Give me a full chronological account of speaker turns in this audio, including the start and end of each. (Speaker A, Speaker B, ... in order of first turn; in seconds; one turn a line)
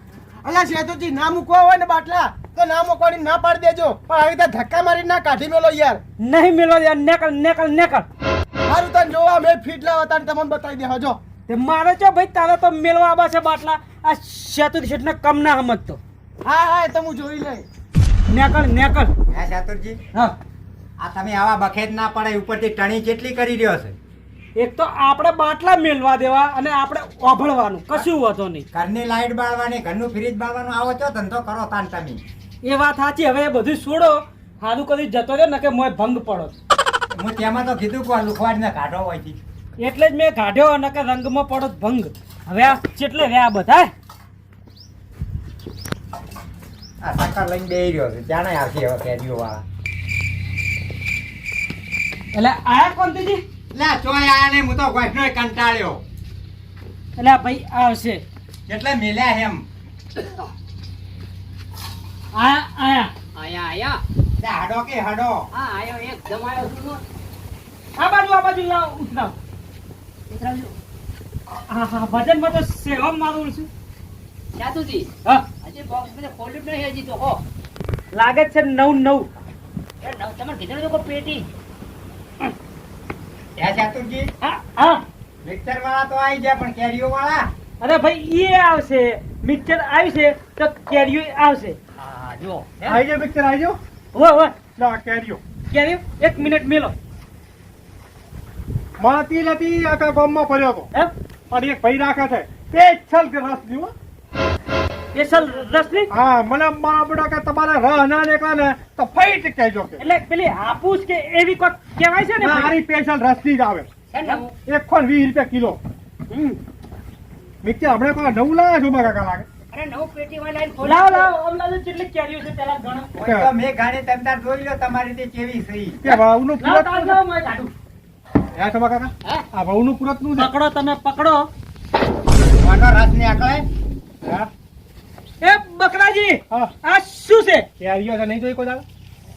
Speaker A: 0.4-6.0
Speaker B: 6.2-8.1
Speaker A: 8.7-11.2
Speaker B: 11.5-16.0
Speaker A: 16.4-17.6
Speaker B: 18.3-19.1
Speaker C: 19.3-20.0
Speaker C: 21.0-24.0
Speaker B: 24.6-28.7
Speaker C: 28.7-32.2
Speaker B: 32.6-36.5
Speaker C: 37.1-39.4
Speaker B: 39.8-43.9
Speaker C: 47.0-49.6
Speaker B: 52.3-53.4
Speaker C: 53.7-56.0
Speaker B: 57.2-58.2
Speaker C: 58.7-59.6
Speaker B: 62.3-63.1
Speaker D: 63.4-64.0
Speaker C: 64.4-65.5
Speaker D: 65.5-67.0
Speaker B: 68.0-69.3
Speaker D: 70.3-70.7
Speaker B: 71.7-73.7
Speaker D: 74.5-75.1
Speaker D: 75.6-77.4
Speaker B: 78.1-79.3
Speaker D: 80.0-81.5
Speaker C: 83.6-84.3
Speaker B: 84.4-85.0
Speaker C: 85.4-87.5
Speaker B: 87.8-91.8
Speaker D: 92.0-93.0
Speaker E: 92.8-93.8
Speaker B: 94.1-94.6
Speaker E: 94.8-95.4
Speaker B: 95.7-96.9
Speaker E: 99.0-100.9
Speaker E: 101.5-103.9
Speaker B: 105.1-106.1
Speaker E: 106.1-110.0
Speaker B: 110.0-112.7
Speaker E: 112.4-113.9
Speaker D: 114.1-114.5
Speaker E: 114.7-115.8
Speaker B: 116.3-116.6
Speaker E: 117.6-119.5
Speaker D: 119.7-121.3
Speaker B: 120.8-123.1
Speaker C: 123.2-126.0
Speaker E: 123.2-123.5
Speaker E: 126.0-127.2
Speaker B: 126.6-127.7
Speaker E: 128.6-130.5
Speaker B: 130.4-131.5
Speaker C: 132.6-133.7
Speaker B: 135.4-137.7
Speaker E: 137.8-138.8